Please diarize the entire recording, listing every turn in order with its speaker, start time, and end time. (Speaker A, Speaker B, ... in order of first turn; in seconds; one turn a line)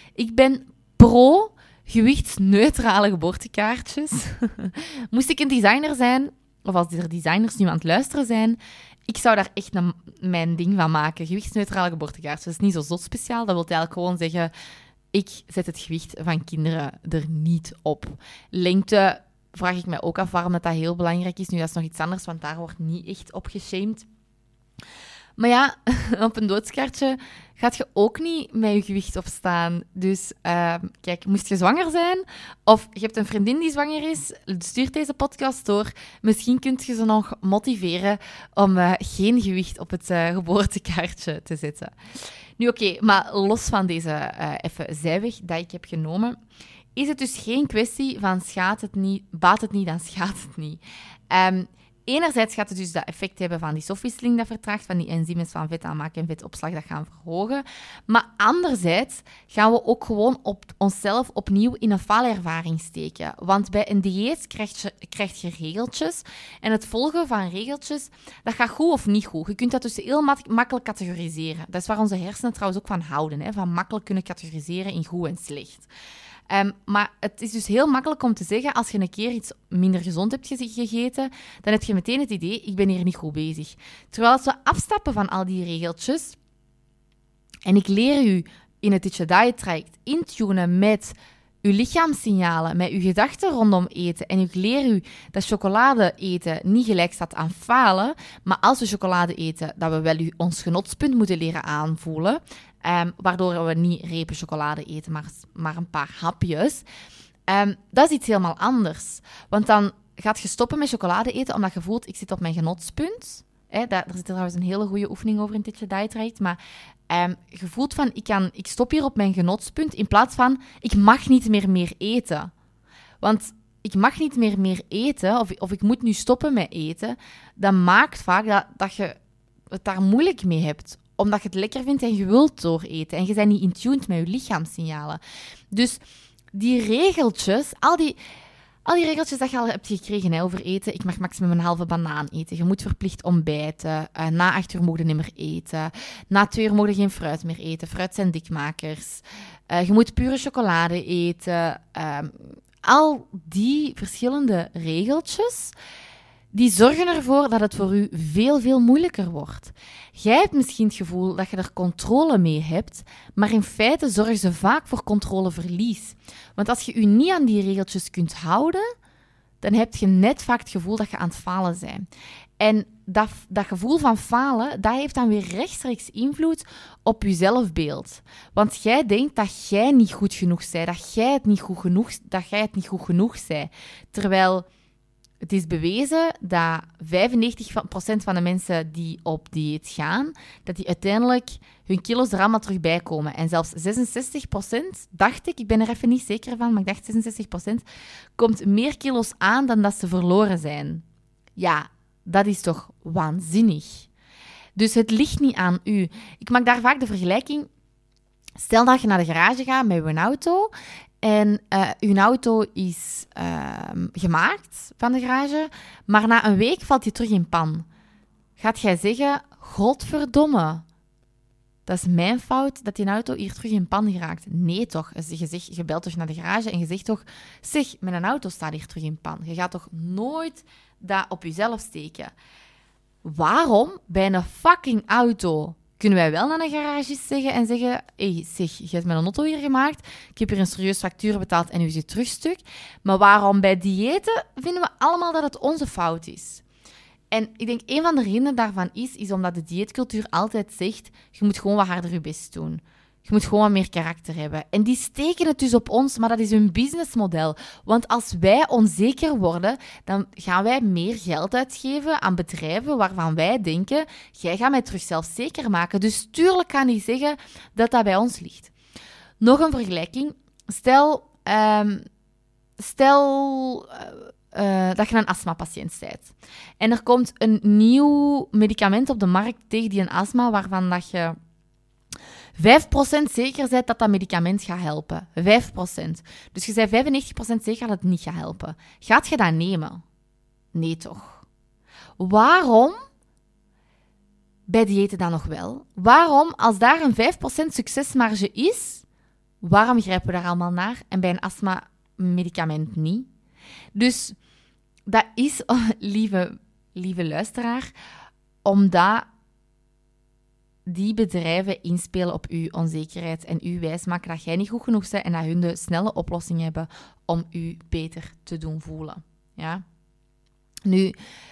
Speaker A: 0.1-14.5
Speaker A: 15.1-24.0
Speaker A: 25.4-41.9
Speaker A: 42.6-46.4
Speaker A: 46.9-50.8
Speaker A: 51.3-75.9
Speaker A: 76.5-86.4
Speaker A: 87.7-106.8
Speaker A: 107.5-116.6
Speaker A: 117.1-122.5
Speaker A: 123.2-129.2
Speaker A: 129.7-135.2
Speaker A: 135.7-136.0
Speaker A: 136.5-138.2
Speaker A: 138.8-155.7
Speaker A: 156.5-168.8
Speaker A: 169.6-172.0
Speaker A: 172.6-184.7
Speaker A: 185.4-197.8
Speaker A: 198.4-201.0
Speaker A: 201.6-204.1
Speaker A: 204.8-207.7
Speaker A: 208.6-210.7
Speaker A: 211.2-217.9
Speaker A: 218.6-220.8
Speaker A: 221.9-232.3
Speaker A: 233.2-246.6
Speaker A: 247.3-268.7
Speaker A: 269.4-272.0
Speaker A: 272.8-281.4
Speaker A: 282.6-290.0
Speaker A: 290.7-291.4
Speaker A: 292.2-293.0
Speaker A: 294.7-299.0
Speaker A: 299.6-303.3
Speaker A: 303.9-304.4
Speaker A: 305.1-307.9
Speaker A: 308.6-309.2
Speaker A: 310.9-319.8
Speaker A: 320.9-321.1